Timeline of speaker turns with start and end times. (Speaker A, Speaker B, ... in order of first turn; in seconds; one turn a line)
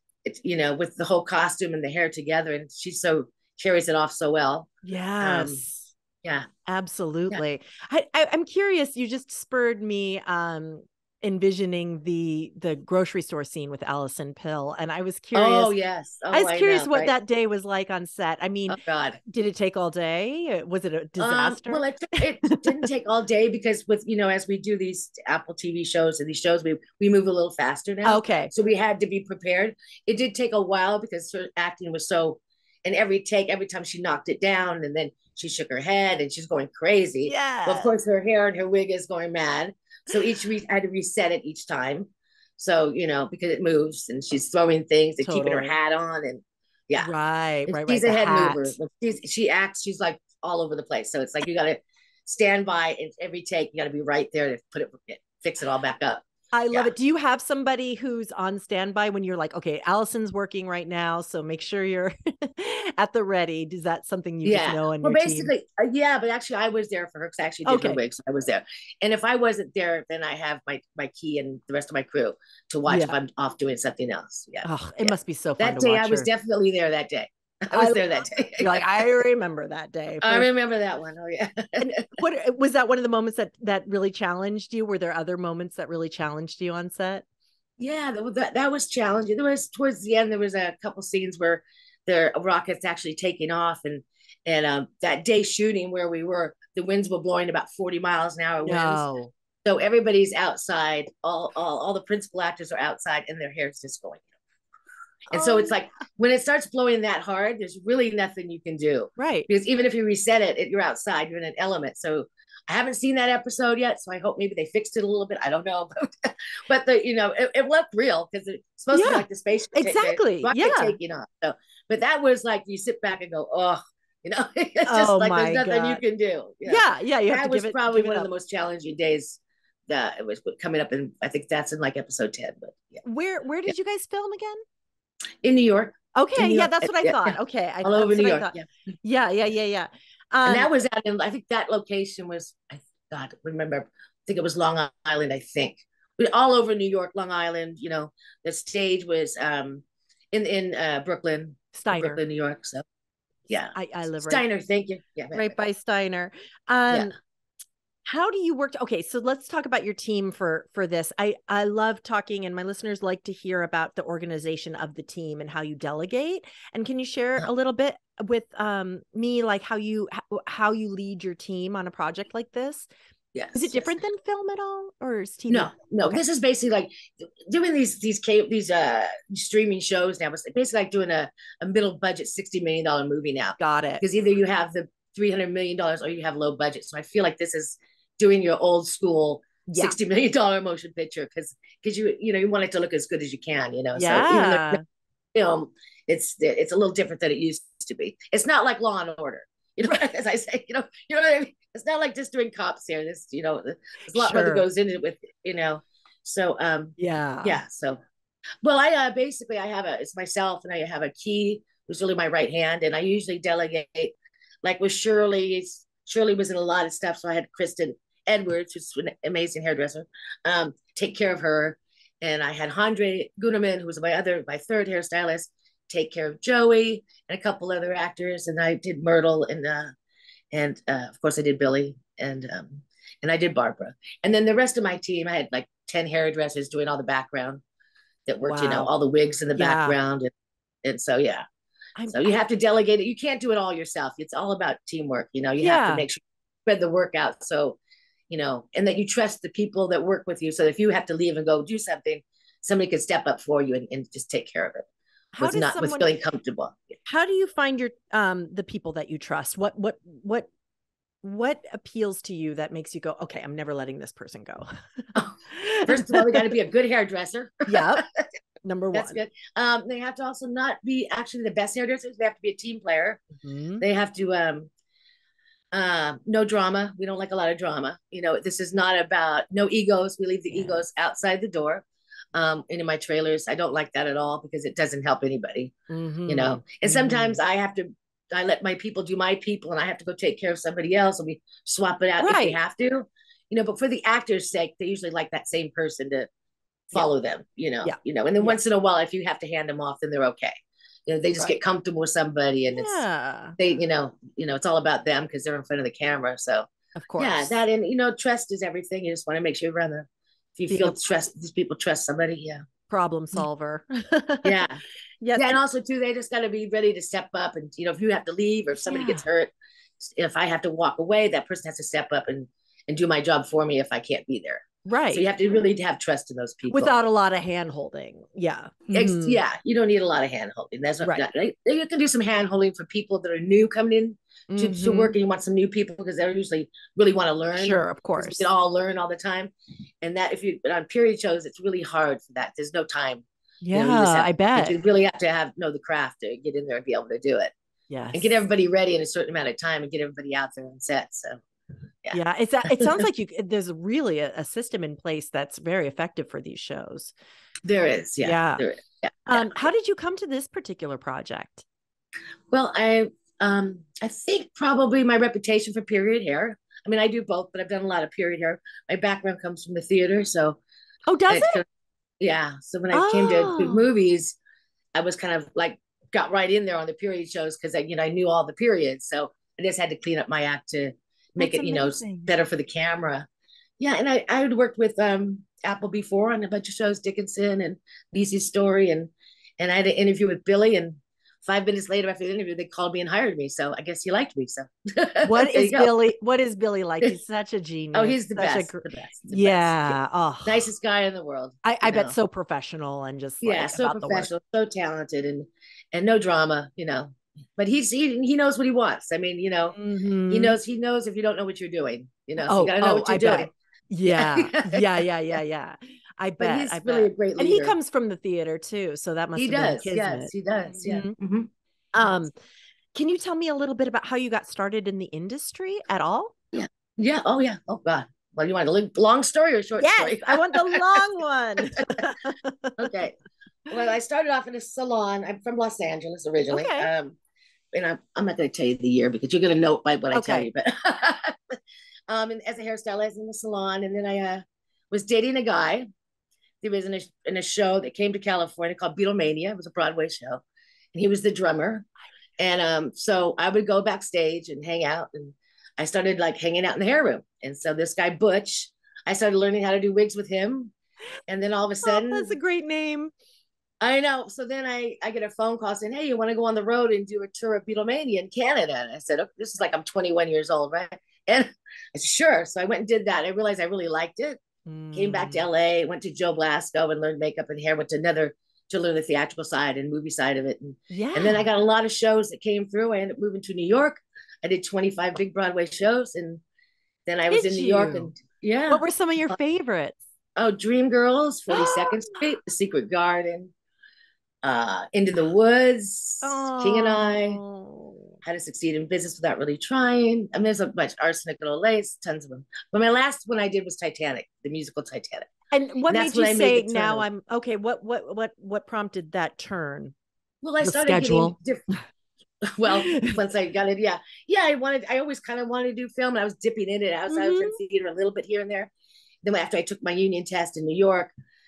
Speaker A: 0.2-5.6
Speaker B: 4.8-5.9
Speaker B: 6.7-15.7
Speaker A: 15.3-17.1
Speaker B: 16.3-21.8
Speaker A: 18.7-19.2
Speaker A: 21.2-47.1
Speaker B: 22.4-22.8
Speaker B: 28.0-28.5
Speaker B: 37.2-37.9
Speaker B: 45.2-45.7
Speaker B: 47.0-48.7
Speaker A: 47.7-56.9
Speaker B: 56.5-65.5
Speaker A: 64.4-78.9
Speaker B: 67.6-68.0
Speaker B: 72.9-73.2
Speaker B: 74.6-76.3
Speaker B: 77.7-78.0
Speaker B: 78.6-80.5
Speaker A: 80.2-82.1
Speaker B: 81.8-87.2
Speaker A: 87.8-99.1
Speaker B: 98.6-99.3
Speaker A: 99.6-104.2
Speaker B: 105.3-105.8
Speaker A: 105.3-133.0
Speaker B: 109.2-109.5
Speaker B: 118.9-121.0
Speaker B: 124.8-126.0
Speaker B: 126.6-128.3
Speaker B: 133.0-134.6
Speaker A: 135.4-138.6
Speaker B: 136.1-140.7
Speaker A: 140.4-152.8
Speaker B: 151.7-152.2
Speaker A: 153.5-155.5
Speaker B: 153.7-154.4
Speaker B: 155.3-157.1
Speaker B: 158.1-172.9
Speaker A: 173.3-173.9
Speaker B: 173.5-176.2
Speaker A: 175.5-194.8
Speaker B: 183.6-184.0
Speaker B: 193.9-194.8
Speaker A: 195.3-208.0
Speaker B: 204.1-204.6
Speaker B: 207.0-207.6
Speaker A: 208.6-229.9
Speaker A: 230.5-237.6
Speaker A: 238.3-240.3
Speaker B: 238.4-238.9
Speaker B: 239.5-239.9
Speaker A: 240.8-241.4
Speaker B: 242.0-242.4
Speaker A: 242.1-247.8
Speaker B: 245.6-246.1
Speaker A: 248.3-254.9
Speaker B: 255.3-256.1
Speaker A: 255.4-256.8
Speaker B: 257.1-260.5
Speaker B: 261.2-264.7
Speaker B: 265.4-266.5
Speaker A: 265.9-268.2
Speaker B: 267.7-268.0
Speaker B: 268.6-269.2
Speaker A: 268.9-273.2
Speaker B: 273.4-273.8
Speaker A: 273.8-274.7
Speaker A: 275.7-285.7
Speaker B: 280.5-280.8
Speaker B: 285.9-287.4
Speaker A: 286.3-296.3
Speaker B: 292.2-292.6
Speaker A: 296.9-300.6
Speaker B: 297.8-298.6
Speaker A: 301.1-303.0
Speaker B: 302.7-303.6
Speaker A: 303.6-312.6
Speaker B: 306.9-307.6
Speaker B: 310.7-310.9
Speaker B: 312.9-314.6
Speaker A: 314.4-314.8
Speaker B: 315.2-315.6
Speaker A: 315.3-326.9
Speaker B: 318.8-319.2
Speaker B: 324.8-325.3
Speaker B: 326.7-329.4
Speaker A: 328.9-347.5
Speaker B: 334.5-335.1
Speaker B: 337.6-338.5
Speaker B: 343.6-344.8
Speaker B: 347.9-348.4
Speaker A: 348.1-351.4
Speaker A: 352.0-353.0
Speaker B: 352.1-357.1
Speaker A: 357.6-359.5
Speaker B: 358.2-358.7
Speaker B: 359.2-361.6
Speaker A: 362.5-370.6
Speaker B: 371.1-371.6
Speaker A: 371.3-371.6
Speaker A: 372.2-374.4
Speaker B: 372.9-373.8
Speaker A: 374.9-383.3
Speaker B: 381.4-382.3
Speaker A: 383.8-395.9
Speaker B: 395.2-400.7
Speaker A: 397.9-402.1
Speaker B: 401.6-404.3
Speaker A: 403.4-409.8
Speaker B: 409.7-410.6
Speaker A: 410.3-413.5
Speaker B: 412.4-421.1
Speaker A: 414.1-414.8
Speaker A: 416.4-417.8
Speaker A: 419.4-422.2
Speaker B: 421.9-422.3
Speaker B: 422.9-426.3
Speaker A: 426.5-431.0
Speaker B: 429.8-432.9
Speaker A: 431.6-432.0
Speaker A: 432.8-433.2
Speaker A: 433.7-437.2
Speaker B: 436.5-436.9
Speaker A: 437.7-445.9
Speaker B: 440.1-440.5
Speaker A: 446.6-450.4
Speaker A: 450.9-451.9
Speaker A: 452.4-460.7
Speaker A: 461.3-462.4
Speaker B: 461.8-463.1
Speaker A: 463.8-474.4
Speaker B: 474.6-475.5
Speaker A: 474.9-486.4
Speaker B: 480.9-481.4
Speaker A: 487.1-489.4
Speaker B: 487.3-488.1
Speaker B: 488.7-490.0
Speaker A: 490.4-493.5
Speaker B: 491.5-492.2
Speaker A: 494.4-497.4
Speaker B: 496.2-498.1
Speaker A: 498.2-505.3
Speaker B: 505.5-509.9
Speaker A: 505.9-507.1
Speaker A: 510.4-511.7
Speaker B: 510.6-511.4
Speaker A: 512.4-518.7
Speaker B: 512.7-513.2
Speaker B: 517.1-517.6
Speaker A: 519.2-521.1